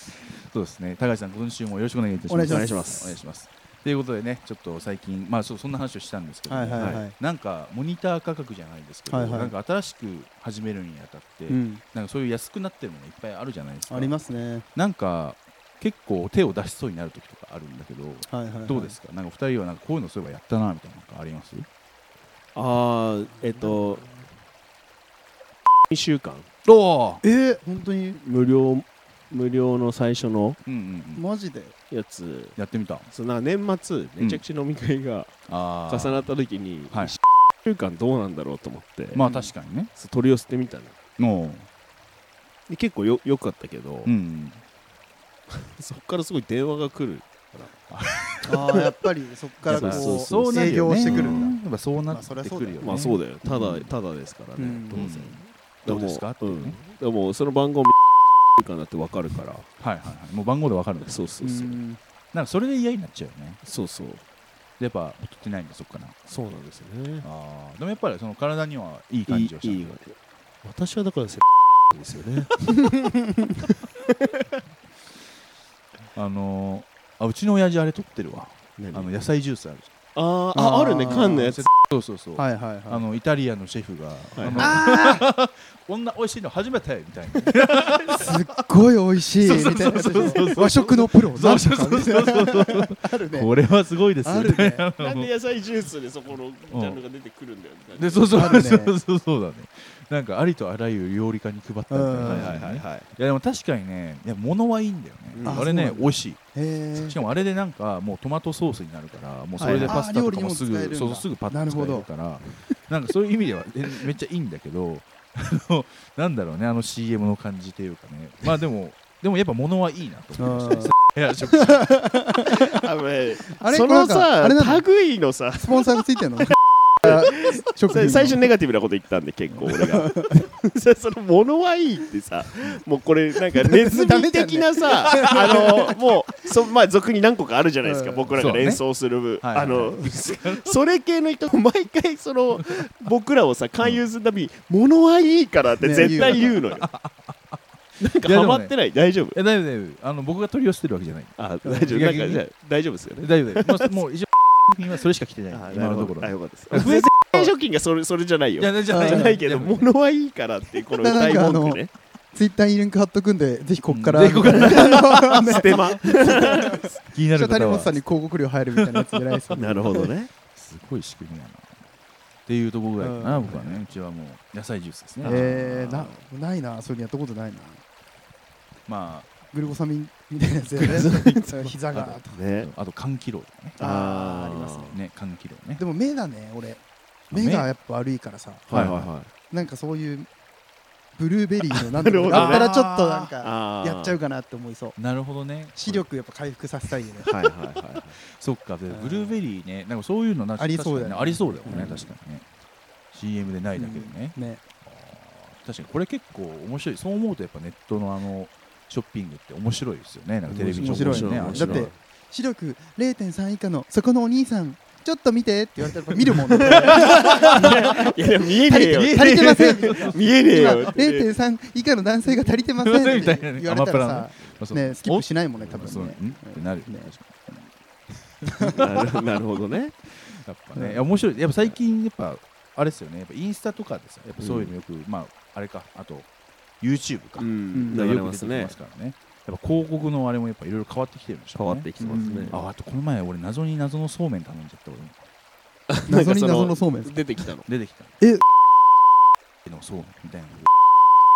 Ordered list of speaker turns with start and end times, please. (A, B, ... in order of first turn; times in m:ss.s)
0:00.3-0:14.1 A
0:02.3-0:02.8 B
0:02.5-0:03.2 C
0:06.5-0:07.1 B
0:06.8-0:07.0 C
0:09.1-0:09.5 B
0:11.5-0:11.8 B
0:13.9-0:14.6 B
0:14.8-0:21.7 A
0:18.3-0:19.0 B
0:22.5-0:24.0 C
0:23.6-0:24.1 B
0:25.9-0:26.5 C
0:26.6-0:27.2 A
0:27.2-0:28.2 B
0:28.2-0:30.6 C
0:30.6-0:31.2 A
0:31.1-0:31.8 B
0:31.9-0:32.6 C
0:32.6-0:33.1 A
0:33.1-0:35.3 C
0:35.5-0:36.3 A
0:35.9-0:39.2 C
0:36.9-0:37.2 A
0:39.1-0:39.9 A
0:39.9-0:40.9 C
0:41.2-0:41.7 A
0:42.7-0:44.1 C
0:44.0-0:44.6 A
0:45.5-0:47.7 C
0:47.9-0:48.5 A
0:48.4-0:48.8 C
0:48.4-0:53.1 B
0:49.6-0:51.5 C
0:49.7-0:53.9 A
0:52.8-0:58.0 C
0:54.6-0:55.0 B
0:54.9-0:56.8 A
0:58.6-0:59.6 C
0:59.8-1:01.3 A
1:01.0-1:01.8 C
1:01.4-1:02.0 B
1:02.3-1:03.6 A
1:03.6-1:04.2 C
1:04.8-1:06.2 A
1:06.3-1:07.2 C
1:07.2-1:09.9 A
1:09.3-1:12.8 C
1:16.1-1:19.9 A
1:18.8-1:19.1 C
1:20.1-1:21.7 C
1:20.5-1:21.5 B
1:21.1-1:28.4 A
1:22.4-1:23.0 B
1:24.4-1:24.8 C
1:24.5-1:25.3 B
1:28.1-1:33.5 B
1:29.4-1:35.3 A
1:30.3-1:30.6 C
1:34.2-1:34.8 B
1:35.0-1:38.4 C
1:36.7-1:37.0 A
1:38.0-2:02.3 A
1:38.3-1:39.0 B
1:41.9-1:42.6 B
1:42.2-1:43.1 C
1:45.3-1:45.6 C
1:45.4-1:47.2 B
1:49.6-1:50.0 C
1:49.6-1:52.1 B
2:00.4-2:00.9 B
2:01.5-2:02.7 B
2:02.4-2:06.2 C
2:03.6-2:04.8 B
2:05.6-2:08.4 B
2:07.0-2:26.9 C
2:09.8-2:10.3 B
2:13.6-2:15.9 B
2:17.8-2:18.3 B
2:18.3-2:18.8 A
2:19.4-2:20.7 A
2:25.8-2:26.6 B
2:26.8-2:27.6 A
2:28.0-2:29.4 C
2:28.2-2:28.7 A
2:29.3-2:32.4 A
2:31.4-2:33.9 C
2:33.2-2:37.1 A
2:35.5-2:41.9 C
2:38.6-2:39.8 A
2:38.9-2:39.4 B
2:41.0-2:50.1 B
2:43.9-2:48.0 A
2:44.7-2:46.9 C
2:49.5-2:50.3 C
2:50.5-2:51.7 A
2:52.4-2:55.6 A
2:53.0-2:53.8 B
2:55.2-2:56.2 C
2:55.2-2:57.8 B
2:58.9-2:59.3 A
2:59.5-3:02.4 B
3:00.8-3:01.2 A
3:00.9-3:02.7 C
3:01.9-3:03.8 A
3:03.8-3:05.0 C
3:03.8-3:05.0 B
3:04.9-3:05.8 A
3:05.8-3:08.7 B
3:07.3-3:07.7 A
3:08.7-3:09.3 C
3:08.7-3:09.1 A
3:09.5-3:10.3 B
3:11.2-3:15.0 B
3:11.7-3:12.7 C
3:12.3-3:13.3 A
3:13.4-3:14.2 C
3:15.0-3:16.0 A
3:15.7-3:17.3 B
3:17.2-3:18.2 C
3:18.3-3:22.4 A
3:18.9-3:19.4 B
3:20.6-3:22.0 B
3:21.7-3:22.1 C
3:23.1-3:31.9 A
3:23.7-3:24.6 B
3:30.5-3:32.0 C
3:30.8-3:47.1 B
3:36.5-3:41.3 C
3:36.6-3:38.0 A
3:38.7-3:40.2 A
3:42.7-3:47.6 A
3:48.4-3:48.9 A
3:48.4-3:49.0 B
3:48.7-3:49.9 C
3:50.3-3:56.3 A
3:50.7-3:51.0 B
3:54.4-3:54.7 C
3:56.8-4:05.2 A
3:57.4-3:58.8 C
4:01.6-4:02.6 C
4:02.0-4:02.6 B
4:05.9-4:07.6 C
4:06.1-4:07.2 B
4:07.6-4:08.1 A
4:09.6-4:10.7 A